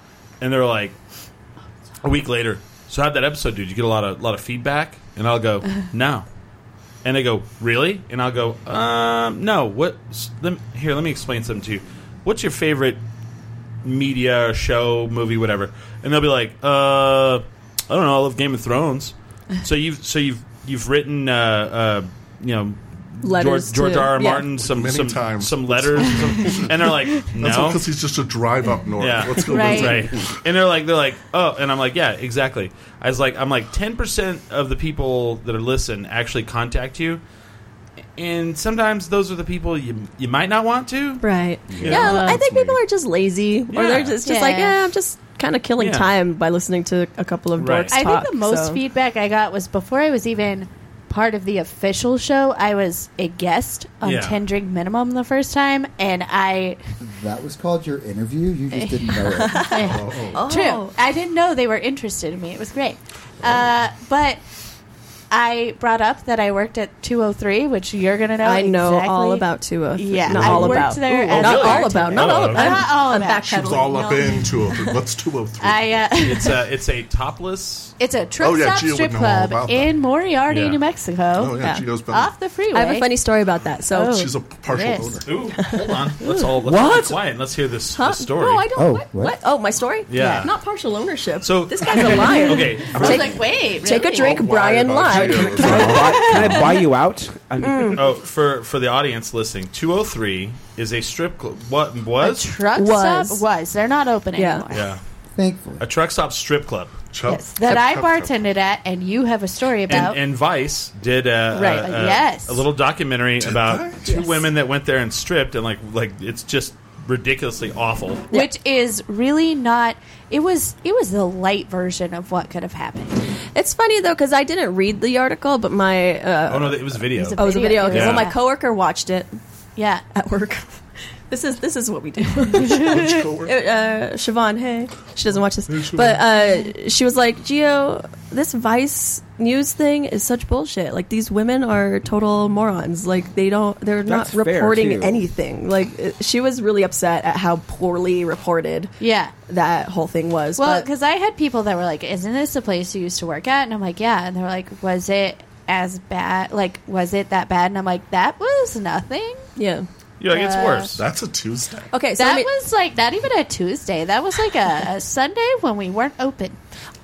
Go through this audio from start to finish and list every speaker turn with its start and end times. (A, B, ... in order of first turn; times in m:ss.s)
0:00.4-0:00.9 A
0:02.0-0:06.2 A
0:07.0-0:13.0 A
0:13.8-0:27.8 A
0:23.2-0:24.5 B
0:24.6-0:30.3 C
0:29.0-0:37.2 A
0:29.4-0:30.0 D
0:38.2-0:42.2 A
0:41.2-0:48.8 B
0:41.7-0:42.8 C
0:41.8-0:42.4 D
0:43.7-0:44.2 A
0:44.2-0:44.8 D
0:45.8-0:46.1 A
0:47.6-0:48.0 A
0:47.9-0:56.8 D
0:54.0-0:54.4 A
0:57.0-0:59.7 E
0:58.7-1:04.4 D
0:59.4-1:00.9 B
0:59.8-1:00.4 C
1:05.3-1:14.2 D
1:08.4-1:14.9 B
1:10.2-1:11.0 C
1:11.2-1:12.8 A
1:13.5-1:16.1 C
1:15.6-1:16.6 D
1:16.2-1:17.9 A
1:18.0-1:23.1 D
1:18.4-1:20.0 C
1:20.5-1:20.8 A
1:21.3-1:22.4 C
1:22.7-1:24.3 B
1:23.9-1:25.2 D
1:24.1-1:25.4 C
1:25.2-1:28.7 A
1:26.6-1:27.1 F
1:27.9-1:36.0 B
1:28.8-1:29.4 E
1:30.1-1:30.5 A
1:31.4-1:33.4 A
1:32.9-1:34.4 D
1:34.1-1:36.6 C
1:35.1-1:38.1 F
1:36.0-1:36.7 D
1:37.6-1:38.0 B
1:38.0-1:42.5 A
1:42.2-1:44.9 D
1:42.8-1:43.4 B
1:44.4-1:44.6 B
1:44.7-1:45.0 A
1:45.4-1:45.8 E
1:45.8-1:46.9 A
1:47.1-1:48.4 C
1:47.3-1:50.2 D
1:49.9-1:58.3 A
1:51.5-1:51.9 B
1:51.6-1:52.6 D
1:53.4-1:54.1 C
1:58.3-2:03.1 D
2:03.5-2:09.4 B
2:06.5-2:08.3 A
2:07.1-2:08.4 D
2:09.8-2:10.0 D
2:10.1-2:28.9 B
2:12.6-2:13.0 D
2:12.6-2:13.5 C
2:15.7-2:16.2 C
2:24.0-2:25.2 F
2:29.0-2:29.3 D
2:29.5-2:30.9 B
2:30.6-2:39.5 D
2:39.6-2:39.8 B
2:40.2-2:41.0 A
2:40.3-2:40.9 D
2:40.9-2:41.9 C
2:41.9-2:42.5 B
2:42.2-2:46.6 D